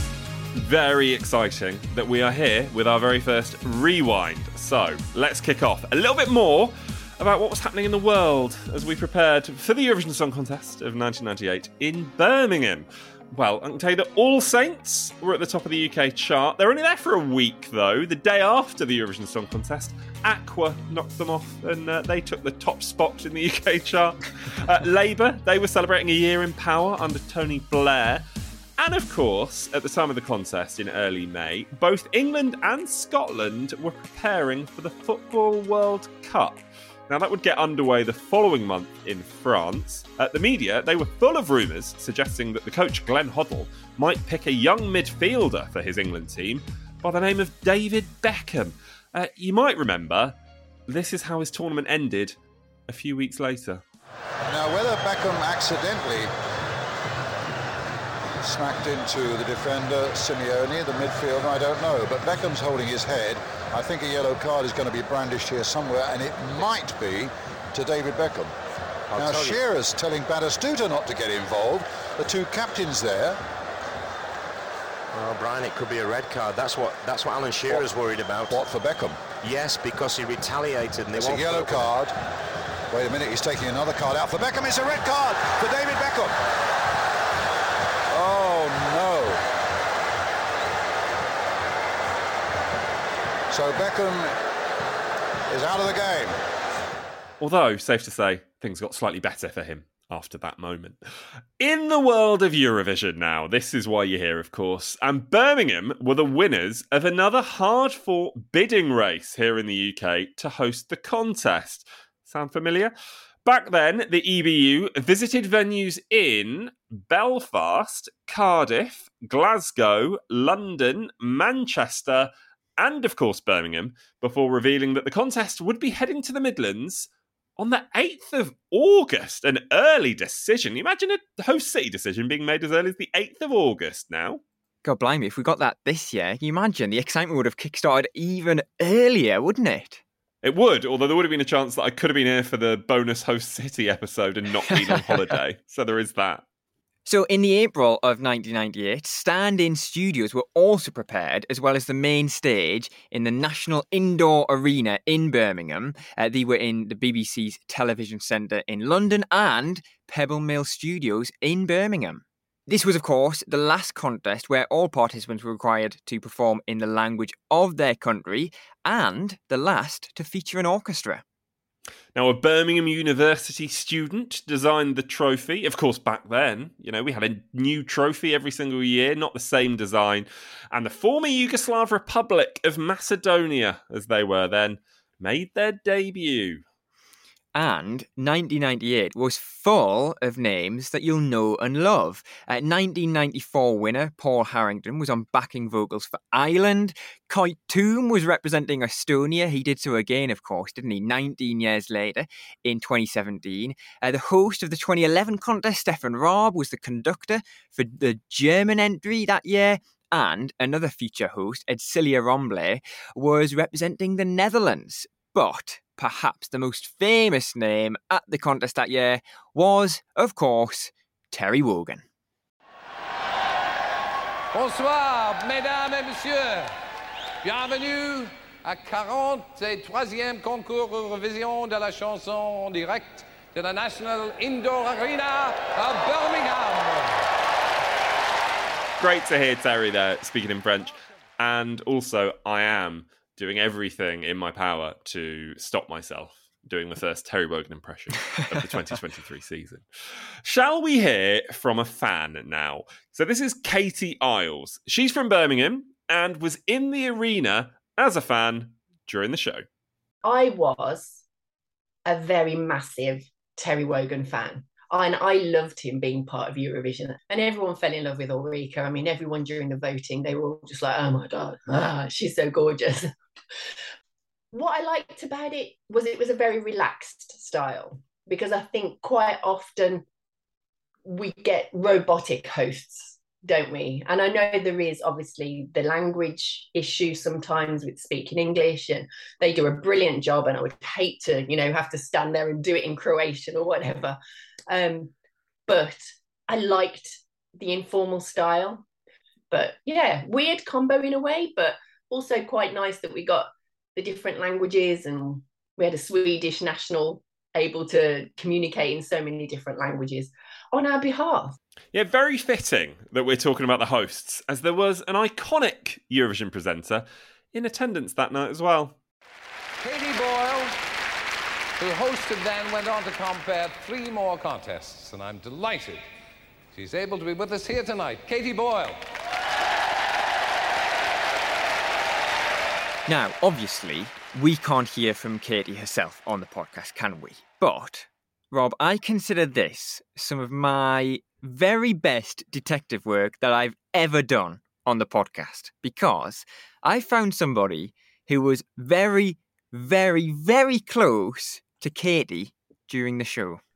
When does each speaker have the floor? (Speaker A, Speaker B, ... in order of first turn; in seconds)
Speaker A: 0.6-28.2, 28.8-50.4, 50.9-52.4, 52.9-53.8, 97.4-101.0, 101.6-112.9, 113.4-134.4, 140.4-146.4, 172.1-186.6, 239.0-249.8, 250.4-259.6, 311.9-319.0
Speaker B: 54.5-56.3, 58.4-68.5, 69.1-73.4, 78.5-79.2, 81.1-82.1, 82.9-86.4, 88.1-89.4, 93.5-94.3, 95.5-96.4
Speaker C: 69.1-69.6, 75.1-78.6, 79.4-82.0
Speaker D: 134.8-140.0, 144.7-145.1, 147.1-171.2, 187.5-222.0, 333.1-353.6
Speaker E: 224.5-226.7, 227.4-237.3, 319.8-320.7, 321.8-326.0, 326.7-329.0
Speaker F: 260.2-261.2, 262.0-273.1, 274.5-280.0, 281.0-295.1, 295.7-298.8, 299.5-311.6